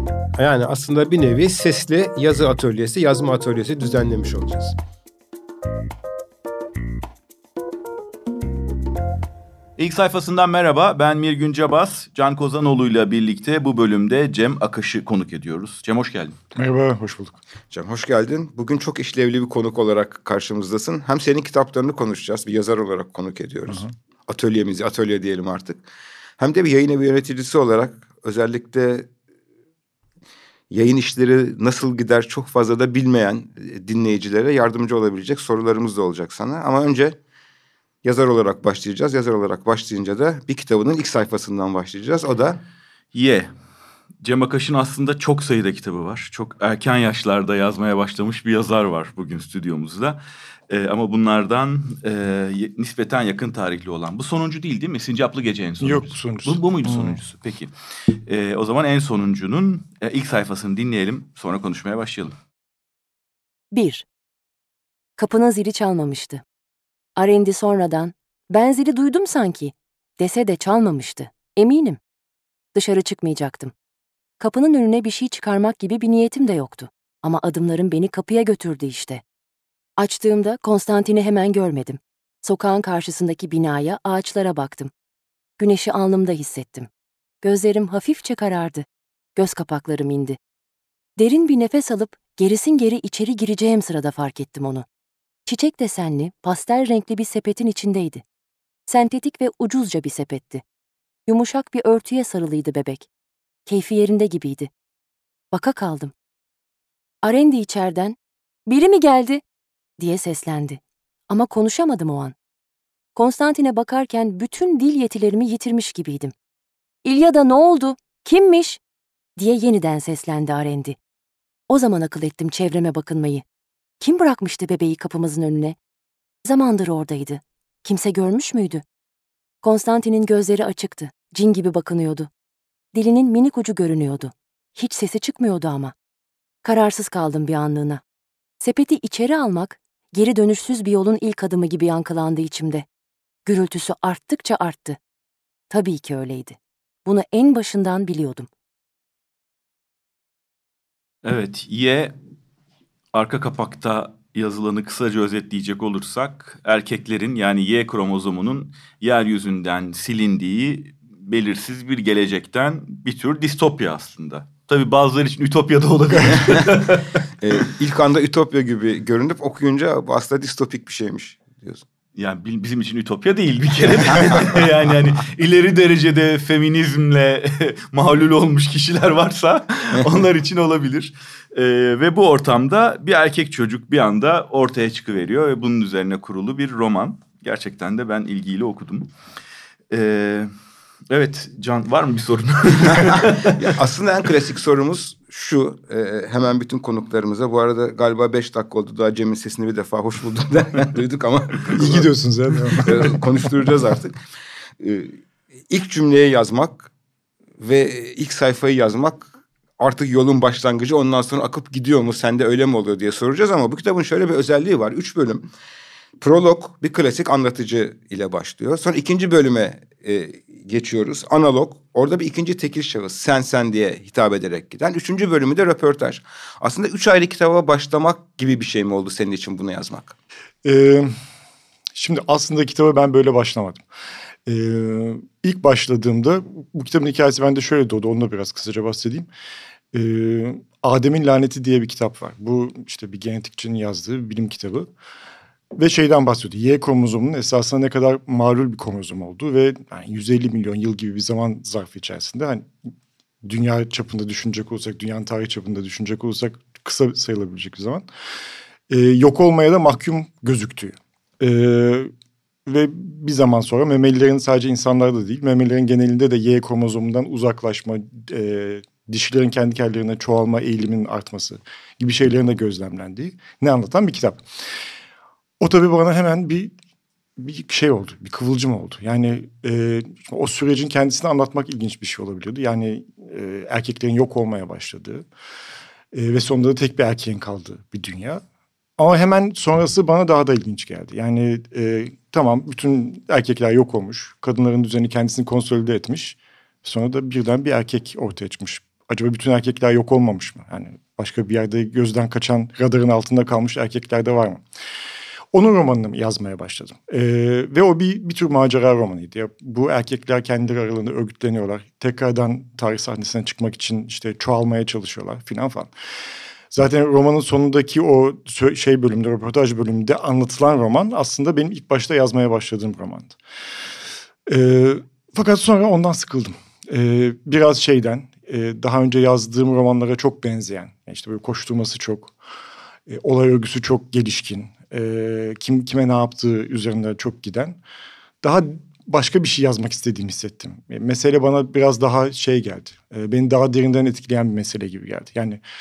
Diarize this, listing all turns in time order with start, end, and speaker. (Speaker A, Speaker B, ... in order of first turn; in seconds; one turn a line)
Speaker A: 0.4-4.8
Speaker B: 9.8-16.4
Speaker C: 16.5-17.4
Speaker D: 17.7-25.8
Speaker D: 26.4-29.1
Speaker D: 30.7-37.2
Speaker D: 38.0-42.6
Speaker B: 43.1-43.5
Speaker B: 44.2-62.4
Speaker C: 55.8-57.2
Speaker E: 63.7-64.0
Speaker E: 65.2-66.4
Speaker E: 67.2-72.0
Speaker E: 72.7-73.7
Speaker E: 74.4-79.2
Speaker E: 80.0-84.9
Speaker E: 85.6-86.9
Speaker E: 87.4-90.4
Speaker E: 91.2-94.8
Speaker E: 95.5-98.2
Speaker E: 98.9-100.6
Speaker E: 101.3-103.1
Speaker E: 103.7-104.7
Speaker E: 105.5-106.1
Speaker E: 107.2-108.2
Speaker E: 108.7-109.4
Speaker E: 110.0-112.3
Speaker E: 113.2-116.3
Speaker E: 117.0-118.8
Speaker E: 119.4-121.0
Speaker E: 121.7-123.4
Speaker E: 124.0-125.8
Speaker E: 126.4-128.8
Speaker E: 129.6-132.3
Speaker E: 132.9-135.9
Speaker E: 136.6-138.0
Speaker E: 138.6-142.8
Speaker E: 143.4-145.0
Speaker E: 145.7-148.5
Speaker B: 151.2-152.1
Speaker B: 153.1-167.1
Speaker D: 167.4-171.8
Speaker B: 172.2-189.1
Speaker B: 189.9-190.5
Speaker B: 191.1-193.5
Speaker D: 192.8-202.1
Speaker C: 201.8-203.5
Speaker D: 202.7-204.2
Speaker D: 204.8-205.2
Speaker D: 205.7-206.9
Speaker D: 207.6-215.4
Speaker D: 216.2-230.1
Speaker C: 230.6-231.1
Speaker C: 231.9-233.8
Speaker C: 234.4-239.3
Speaker C: 239.9-244.9
Speaker C: 245.8-252.7
Speaker C: 253.4-258.1
Speaker C: 258.9-262.1
Speaker C: 262.6-274.4
Speaker C: 275.6-276.7
Speaker C: 277.4-285.2
Speaker C: 286.1-288.4
Speaker C: 289.0-304.6
Speaker C: 305.5-315.9
Speaker C: 316.7-323.4
Speaker C: 324.4-332.3
Speaker C: 333.1-337.8
Speaker C: 338.4-345.6